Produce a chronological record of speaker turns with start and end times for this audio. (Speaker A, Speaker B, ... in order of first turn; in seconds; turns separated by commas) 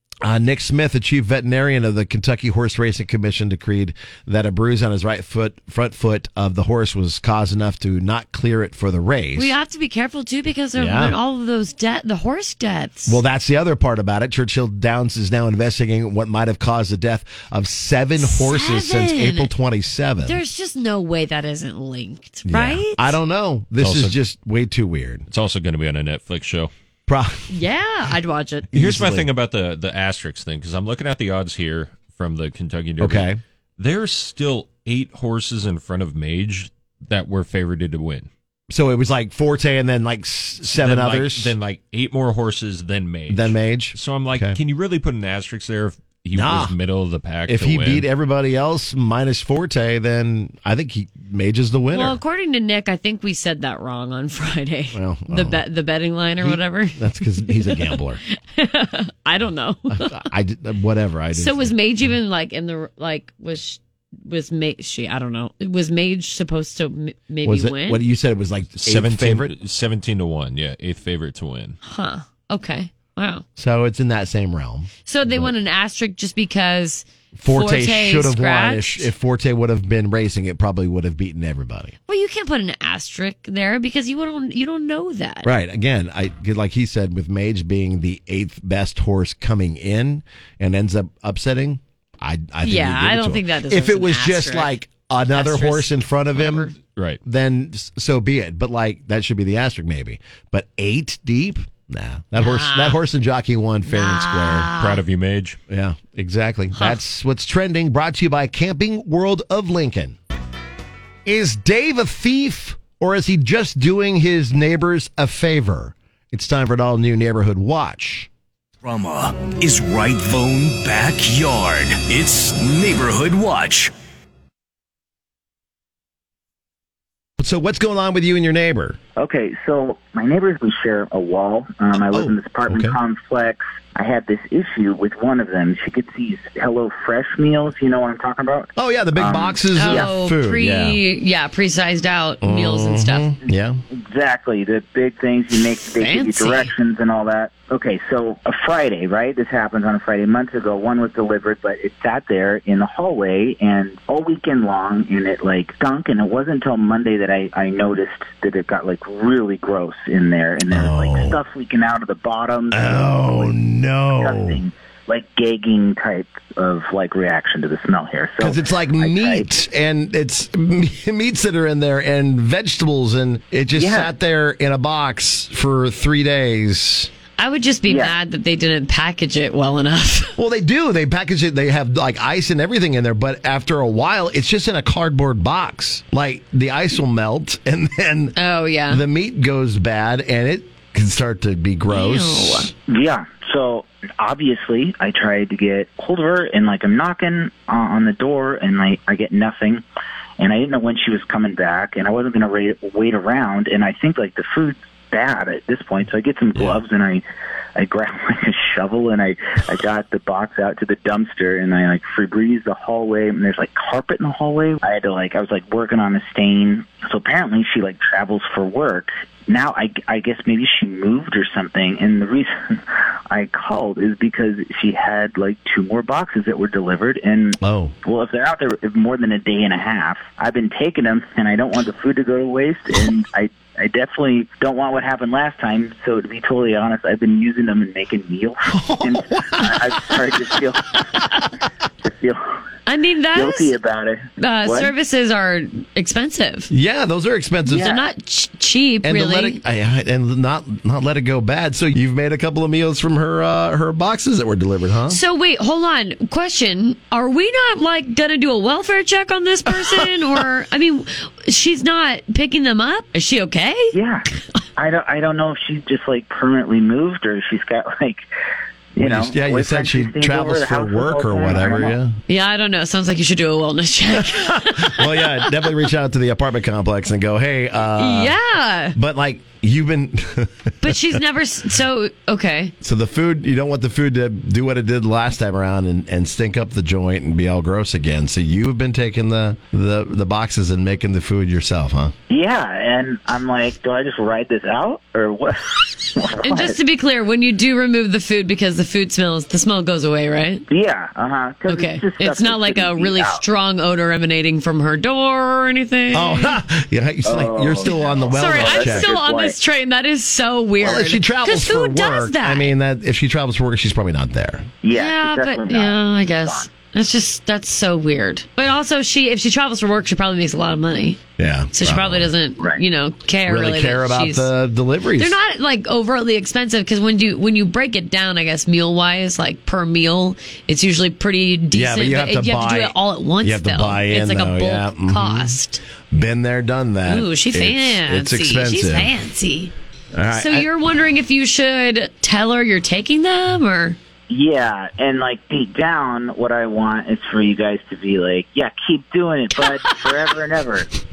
Speaker A: 0.2-9.5, Speaker B: 9.3-13.2, Speaker A: 10.7-11.2, Speaker A: 13.1-20.4, Speaker B: 18.2-19.5, Speaker B: 20.2-23.2, Speaker A: 22.4-25.2, Speaker C: 23.8-24.1, Speaker C: 25.3-26.7, Speaker A: 27.1-27.5, Speaker B: 27.5-28.7, Speaker A: 28.7-29.3, Speaker C: 28.7-38.3, Speaker A: 33.0-33.4, Speaker A: 38.7-41.5, Speaker C: 40.8-48.1, Speaker A: 43.3-44.6, Speaker A: 46.3-46.8, Speaker A: 47.5-52.2, Speaker B: 51.9-60.3, Speaker A: 54.9-55.6, Speaker A: 56.4-58.2, Speaker A: 59.9-61.8, Speaker B: 61.3-68.0, Speaker A: 67.4-69.5, Speaker C: 68.8-71.8, Speaker B: 71.8-73.4, Speaker A: 73.6-75.5, Speaker B: 75.0-79.1, Speaker A: 77.3-81.9, Speaker B: 82.1-85.5, Speaker A: 85.4-104.7, Speaker B: 92.6-94.8, Speaker B: 95.3-96.7, Speaker B: 102.4-103.0, Speaker B: 103.9-105.0, Speaker C: 104.8-105.6, Speaker A: 105.7-110.2, Speaker A: 111.2-118.3, Speaker D: 118.8-123.9, Speaker A: 127.4-129.0, Speaker E: 129.2-140.1, Speaker A: 132.1-133.0, Speaker A: 138.8-141.0, Speaker B: 139.7-143.3, Speaker A: 142.4-143.8, Speaker E: 144.1-163.6, Speaker B: 146.0-146.7, Speaker A: 160.7-161.4, Speaker A: 162.7-164.6, Speaker E: 164.1-169.4, Speaker A: 168.4-177.1, Speaker E: 173.7-174.1, Speaker B: 177.4-180.3, Speaker E: 177.9-178.1, Speaker A: 180.4-192.7, Speaker B: 188.3-189.0, Speaker B: 191.9-192.7, Speaker E: 192.9-199.8, Speaker E: 200.4-207.2, Speaker E: 207.8-241.2, Speaker A: 227.6-227.9, Speaker A: 238.7-240.6, Speaker E: 242.1-242.5, Speaker B: 242.8-243.7, Speaker E: 243.3-244.9, Speaker B: 244.4-246.7, Speaker A: 246.7-248.0, Speaker B: 247.7-249.6, Speaker A: 249.0-255.2, Speaker B: 255.1-263.9, Speaker E: 263.9-264.2, Speaker E: 264.8-268.2, Speaker E: 268.9-272.0, Speaker A: 269.0-272.2, Speaker B: 272.3-275.7, Speaker A: 274.1-278.4, Speaker B: 278.0-279.0, Speaker A: 278.9-281.2, Speaker B: 280.8-282.7, Speaker A: 282.8-292.1, Speaker E: 292.3-296.8, Speaker B: 296.4-300.6, Speaker E: 300.7-303.4, Speaker B: 301.7-306.6, Speaker A: 306.1-309.1, Speaker E: 307.2-309.6, Speaker B: 308.1-312.7, Speaker A: 310.8-314.7, Speaker E: 314.8-316.7, Speaker B: 314.9-321.2, Speaker A: 321.4-322.3, Speaker B: 321.7-324.5, Speaker A: 323.4-325.4, Speaker B: 325.2-335.8, Speaker A: 331.7-339.1, Speaker B: 337.1-339.7, Speaker A: 340.1-340.7, Speaker B: 340.3-344.0, Speaker E: 344.3-350.9, Speaker B: 349.6-349.9